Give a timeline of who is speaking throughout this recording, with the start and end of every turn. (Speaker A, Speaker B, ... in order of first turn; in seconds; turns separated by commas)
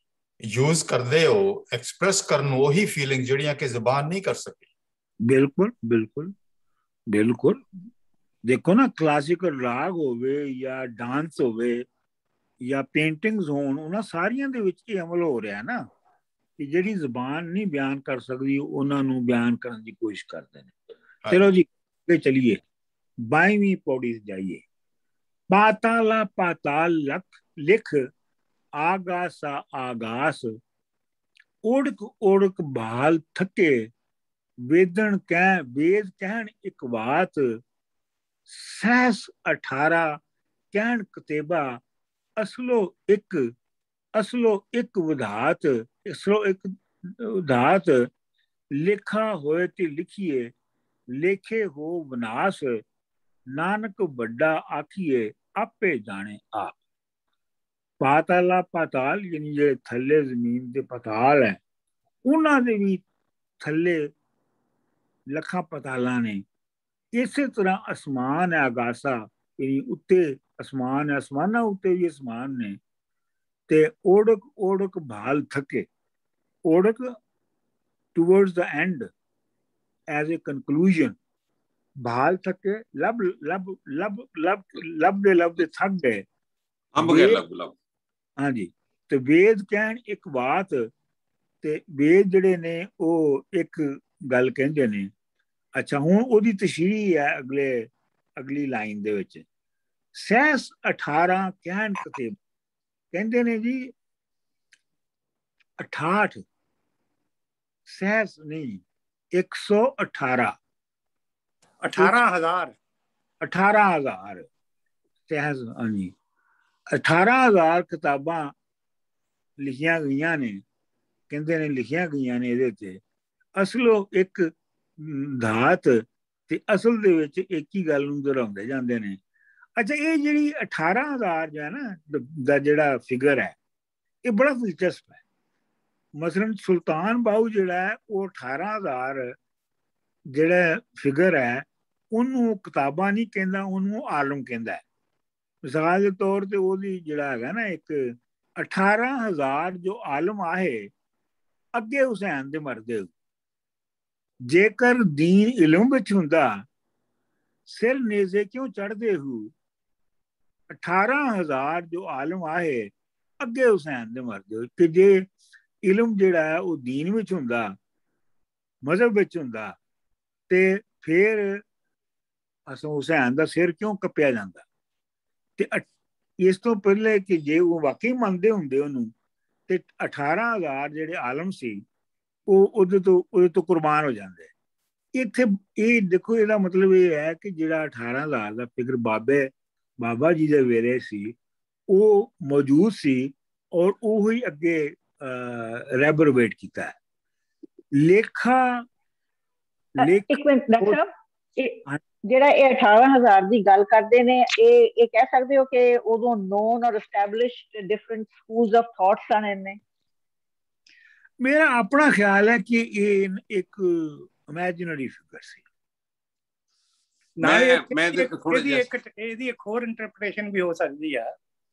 Speaker A: 0.5-4.7, Speaker B: 5.3-6.3, Speaker B: 7.1-7.6, Speaker B: 8.5-11.9, Speaker B: 12.6-15.8, Speaker B: 16.6-20.7, Speaker B: 21.3-22.6, Speaker B: 23.3-24.6, Speaker B: 25.5-28.1, Speaker B: 28.8-30.6, Speaker B: 31.6-33.9, Speaker B: 34.7-37.6, Speaker B: 38.5-40.2, Speaker B: 40.7-41.8, Speaker B: 42.4-43.5, Speaker B: 44.1-48.1, Speaker B: 48.8-50.5, Speaker B: 51.1-52.8, Speaker B: 53.5-56.8, Speaker B: 58.0-61.6, Speaker B: 62.2-63.0, Speaker B: 63.6-64.1, Speaker B: 65.3-66.4, Speaker B: 67.2-72.8, Speaker B: 73.7-75.9, Speaker B: 76.7-77.2, Speaker B: 78.1-79.1, Speaker B: 80.1-81.2, Speaker B: 82.0-86.2, Speaker C: 86.9-87.7, Speaker B: 87.0-87.4, Speaker B: 88.4-90.9, Speaker B: 91.6-95.1, Speaker B: 95.8-99.4, Speaker B: 100.2-102.4, Speaker B: 103.1-103.9, Speaker B: 105.8-106.4, Speaker B: 107.9-108.8, Speaker B: 109.3-110.5, Speaker D: 111.8-112.7, Speaker B: 113.4-114.5, Speaker B: 115.3-116.1, Speaker B: 116.9-118.5, Speaker B: 119.6-120.6, Speaker B: 121.3-123.0, Speaker B: 123.6-129.2, Speaker B: 129.8-133.6, Speaker B: 134.2-135.2, Speaker B: 136.2-139.3, Speaker B: 140.3-144.8, Speaker B: 145.6-150.9, Speaker B: 151.8-153.1, Speaker B: 154.5-156.6, Speaker B: 157.7-159.5, Speaker B: 160.7-165.3, Speaker B: 165.8-167.8, Speaker B: 168.8-169.8, Speaker B: 170.5-171.6, Speaker B: 172.7-174.6, Speaker B: 175.6-175.9, Speaker B: 176.4-179.1, Speaker B: 179.7-181.8, Speaker B: 182.5-184.5, Speaker B: 185.1-189.5, Speaker B: 190.0-191.3, Speaker B: 191.9-196.9, Speaker B: 198.0-198.8, Speaker B: 200.0-201.0, Speaker E: 200.3-209.8, Speaker B: 211.4-215.6, Speaker D: 217.4-221.3, Speaker C: 217.4-218.8